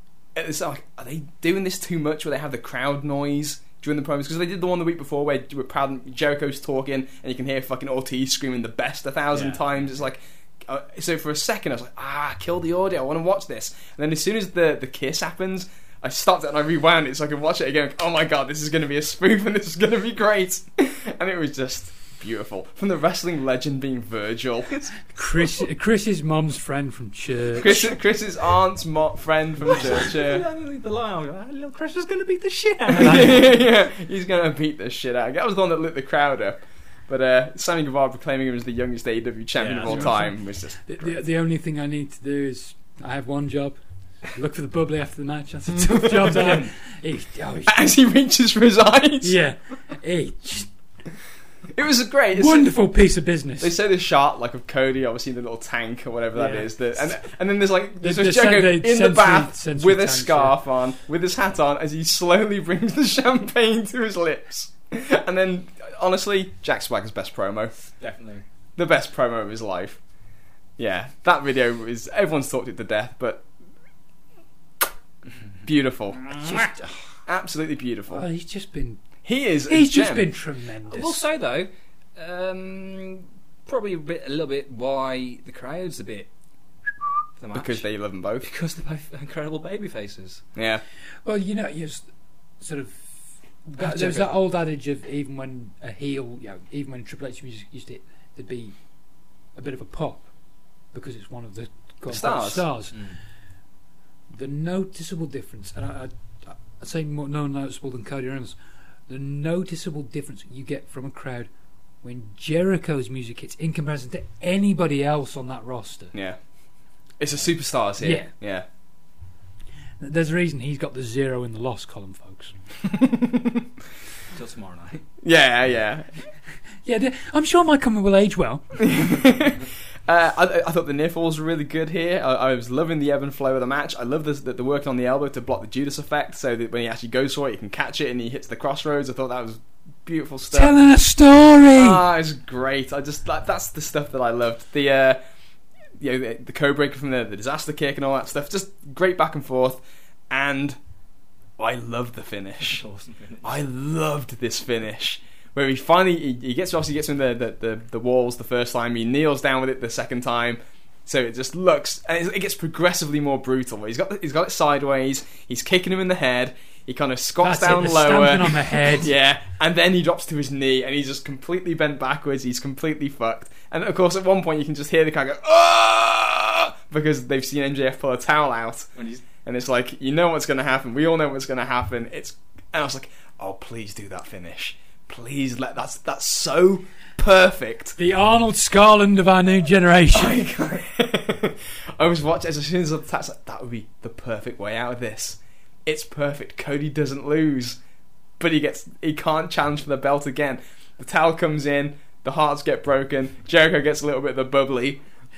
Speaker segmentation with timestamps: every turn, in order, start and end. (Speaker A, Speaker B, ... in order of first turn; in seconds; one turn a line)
Speaker A: 0.3-25.1
Speaker B: 9.3-10.0
Speaker C: 25.1-28.0
Speaker A: 27.6-30.4
Speaker B: 29.6-33.4
Speaker A: 32.9-41.1
Speaker B: 39.6-40.3
Speaker C: 39.8-47.9
Speaker B: 46.3-46.6
Speaker A: 47.7-49.4
Speaker C: 49.2-50.7
Speaker A: 51.7-52.7
Speaker C: 52.3-53.7
Speaker A: 53.6-67.7
Speaker C: 56.3-57.2
Speaker C: 58.0-60.5
Speaker B: 68.0-68.4
Speaker A: 68.8-70.0
Speaker A: 70.8-73.5
Speaker A: 75.6-76.4
Speaker B: 76.2-76.6
Speaker C: 76.4-77.0
Speaker A: 77.2-78.2
Speaker C: 78.1-79.0
Speaker A: 79.2-80.3
Speaker C: 79.7-81.2
Speaker B: 80.9-86.3
Speaker B: 87.4-87.8
Speaker A: 87.5-88.5
Speaker B: 88.4-90.4
Speaker A: 90.5-90.8
Speaker C: 91.2-98.8
Speaker B: 93.8-94.3
Speaker C: 99.5-100.3
Speaker C: 100.9-103.1
Speaker A: 102.1-102.7
Speaker B: 102.9-103.2
Speaker C: 104.3-108.6
Speaker C: 109.1-111.5
Speaker C: 112.0-116.1
Speaker A: 116.1-116.4
Speaker A: 117.2-118.7
Speaker C: 118.0-118.3
Speaker C: 120.0-122.7
Speaker A: 123.1-123.6
Speaker B: 124.3-125.1
Speaker A: 125.2-126.2
Speaker C: 126.8-128.9
Speaker A: 128.8-140.7
Speaker C: 140.5-142.0
Speaker A: 141.7-145.2
Speaker A: 145.9-150.8
Speaker A: 151.6-152.8
Speaker B: 152.6-153.6
Speaker A: 153.4-178.9
Speaker C: 167.4-169.1
Speaker B: 178.9-179.2
Speaker A: 179.4-187.9
Speaker C: 188.0-190.4
Speaker A: 190.1-197.8
Speaker A: 198.4-205.0